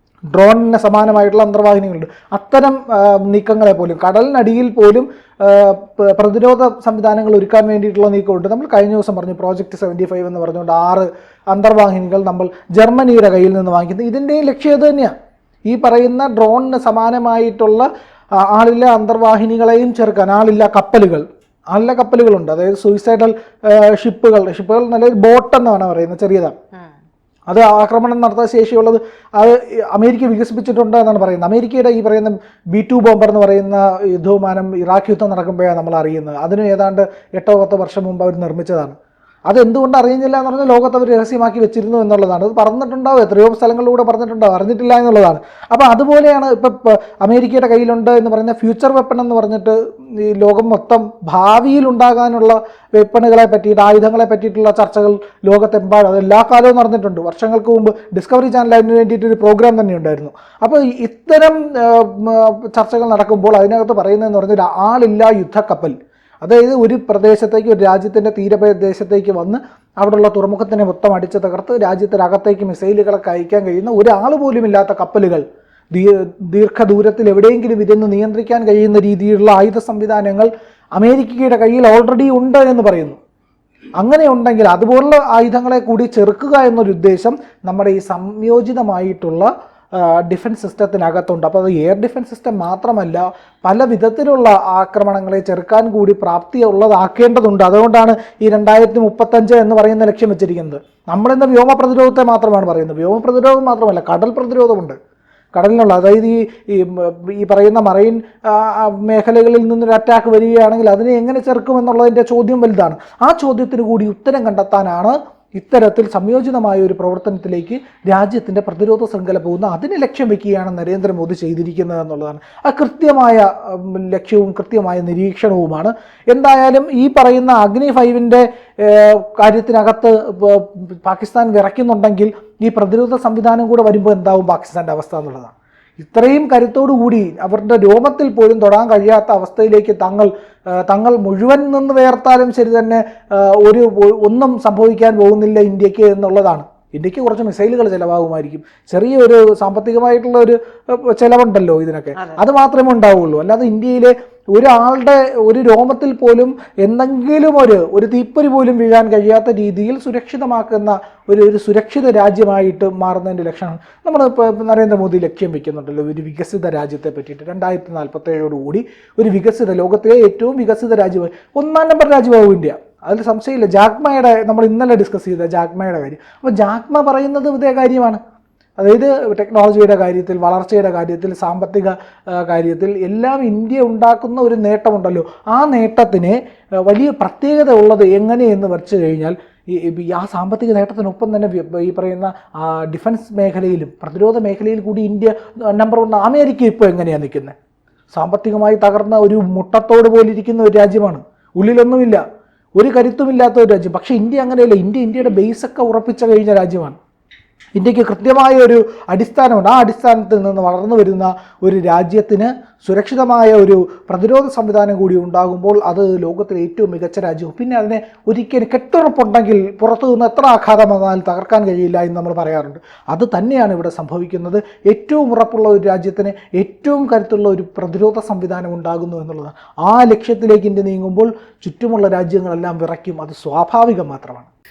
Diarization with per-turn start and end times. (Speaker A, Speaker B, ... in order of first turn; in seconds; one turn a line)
Speaker A: 0.3-15.1
Speaker A: 15.7-26.5
Speaker A: 27.5-39.0
Speaker A: 39.5-83.2
Speaker A: 84.0-89.5
Speaker A: 90.0-105.0
Speaker A: 105.5-178.2
Speaker A: 178.8-197.5
Speaker A: 198.1-202.2
Speaker A: 202.8-206.9
Speaker A: 207.8-234.5